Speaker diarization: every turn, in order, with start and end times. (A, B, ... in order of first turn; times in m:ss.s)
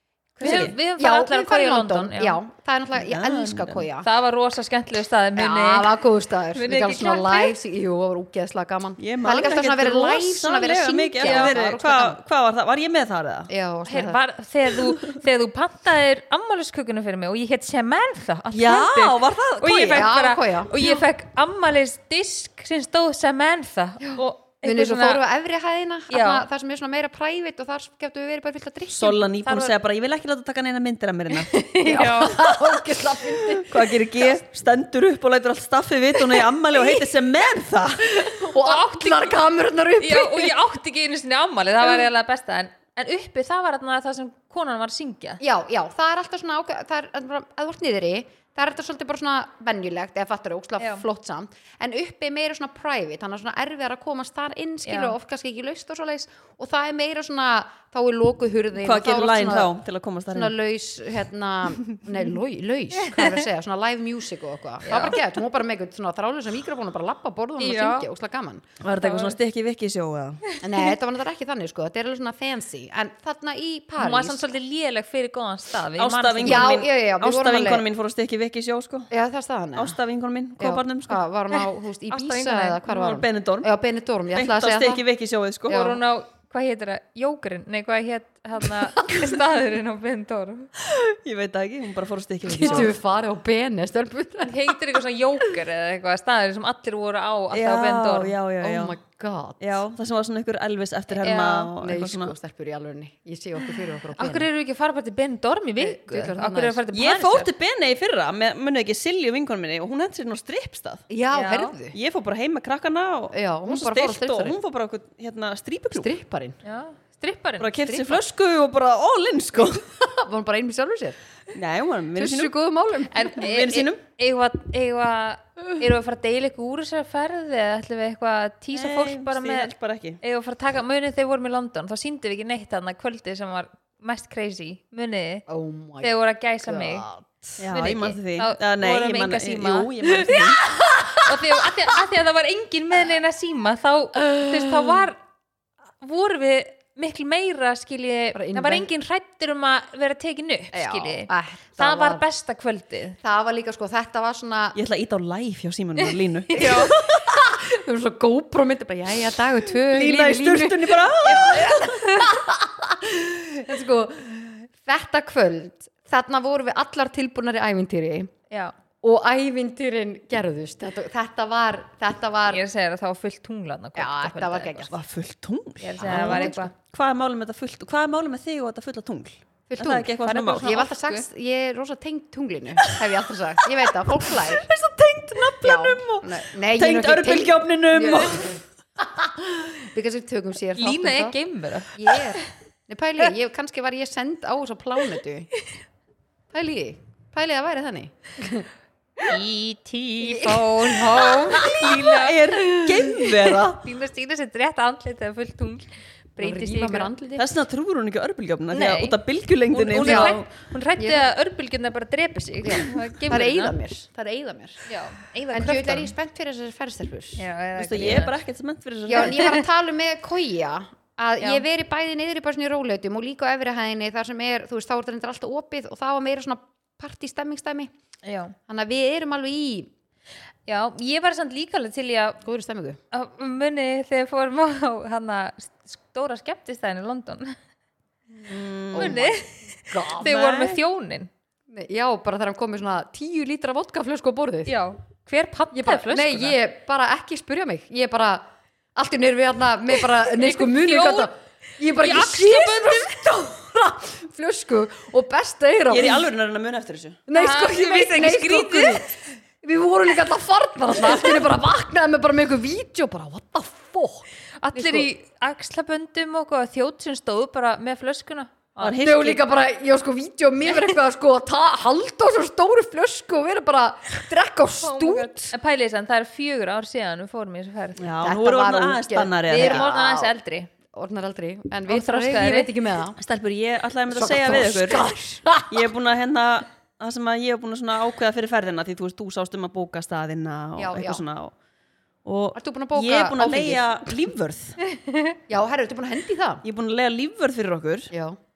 0:00.4-0:04.1 A
0:00.4-0:00.8 B
0:00.4-0:02.4 C
0:03.0-0:03.8 B
0:04.0-0:06.0 C
0:05.4-0:12.2 A
0:06.5-0:07.5 C
0:09.0-0:13.5 B
0:11.2-0:11.5 C
0:13.5-0:14.2 A
0:13.9-0:25.2 C
0:18.5-0:20.1 B
0:19.9-0:21.0 A
0:24.0-0:29.2 A
0:26.1-0:26.4 C
0:28.9-0:31.5 B
0:29.4-0:29.7 C
0:31.5-0:32.7 C
0:31.8-0:34.0 A
0:33.4-0:38.2 B
0:38.1-0:40.6 A
0:38.6-0:39.3 C
0:40.0-0:45.4 C
0:45.4-0:59.7 A
0:50.8-0:51.0 C
0:54.8-0:55.1 C
0:58.8-1:00.5 B
1:00.3-1:08.7 A
1:03.0-1:03.4 C
1:04.8-1:05.2 C
1:07.6-1:08.1 C
1:08.8-1:10.5 B
1:08.9-1:09.4 C
1:10.6-1:14.4 A
1:14.0-1:16.7 C
1:16.0-1:19.1 B
1:16.4-1:17.8 A
1:19.1-1:20.0 A
1:19.7-1:21.2 B
1:20.6-1:25.0 A
1:21.5-1:22.8 C
1:22.8-1:23.7 B
1:24.3-1:25.9 B
1:25.7-1:26.0 A
1:25.7-1:30.7 C
1:29.0-1:29.3 A
1:30.8-1:32.9 B
1:32.5-1:34.7 A
1:32.6-1:32.8 C
1:34.4-1:38.4 C
1:37.5-1:39.0 B
1:38.6-1:39.6 A
1:39.6-1:42.3 B
1:41.2-1:41.7 C
1:41.7-1:44.5 A
1:44.2-1:47.5 C
1:45.8-1:46.8 A
1:46.9-1:51.1 B
1:51.1-1:52.0 A
1:51.3-1:51.7 C
1:51.9-1:56.1 B
1:53.3-1:54.6 A
1:55.9-1:56.6 A
1:56.6-1:58.0 C
1:57.6-1:59.9 B
1:57.9-1:58.2 A
2:00.0-2:01.2 A
2:01.5-2:02.5 B
2:02.2-2:03.4 A
2:03.1-2:15.4 C
2:03.3-2:04.0 B
2:08.7-2:10.2 B
2:15.5-2:17.6 A
2:16.0-2:17.0 C
2:17.6-2:20.6 B
2:17.7-2:25.2 C
2:20.7-2:21.4 A
2:24.3-2:25.0 A
2:26.0-2:33.2 C
2:28.3-2:28.9 A
2:30.7-2:32.2 A
2:33.2-2:34.8 A
2:34.7-2:37.2 B
2:36.5-2:36.9 C
2:36.5-2:48.3 A
2:39.8-2:42.0 B
2:41.2-2:42.3 C
2:48.5-2:48.7 C
2:49.0-2:52.6 A
2:52.5-2:54.9 C
2:54.0-2:54.9 A
2:54.9-3:00.7 B
2:55.8-2:56.7 C
2:56.0-2:56.7 A
2:59.7-3:04.7 A
3:00.2-3:01.2 C
3:03.9-3:08.6 B
3:05.6-3:11.4 A
3:10.8-3:12.4 C
3:11.9-3:15.5 A
3:16.5-3:18.7 A
3:19.2-3:27.1 C
3:20.2-3:21.9 A
3:21.5-3:23.8 B
3:26.4-3:27.4 A
3:27.4-3:30.4 B
3:28.7-3:29.2 C
3:29.7-3:33.7 C
3:30.0-3:30.4 A
3:31.0-3:31.3 A
3:32.6-3:34.8 A
3:34.9-3:36.1 C
3:35.5-3:37.4 A
3:37.4-3:38.4 C
3:37.8-3:39.6 B
3:39.1-3:47.9 A
3:39.2-3:39.6 C
3:48.2-3:48.6 C
3:48.7-3:49.9 A
3:50.7-3:52.4 C
3:52.4-3:53.0 A
3:53.1-3:57.6 C
3:58.4-3:59.2 B
3:58.9-4:00.4 A
3:58.9-4:01.3 C
4:00.2-4:00.8 B
4:01.7-4:04.7 A
4:04.7-4:06.6 C
4:05.7-4:16.3 A
4:10.3-4:11.3 C
4:11.8-4:13.5 C
4:15.9-4:17.2 B
4:17.3-4:25.1 A
4:17.3-4:19.0 C
4:24.6-4:29.0 C
4:28.8-4:29.4 B
4:29.0-4:35.5 A
4:34.8-4:38.1 C
4:38.0-4:39.9 B
4:38.2-4:40.3 A
4:39.5-4:40.7 C
4:40.9-4:43.2 A
4:41.9-4:42.7 C
4:43.2-4:45.1 B
4:44.1-4:45.9 A
4:45.7-4:51.5 B
4:50.8-4:51.2 A
4:52.2-4:54.8 B
4:52.5-4:54.2 A
4:54.8-4:55.4 C
4:55.5-4:56.6 A
4:56.6-4:58.1 B
4:58.1-4:58.4 A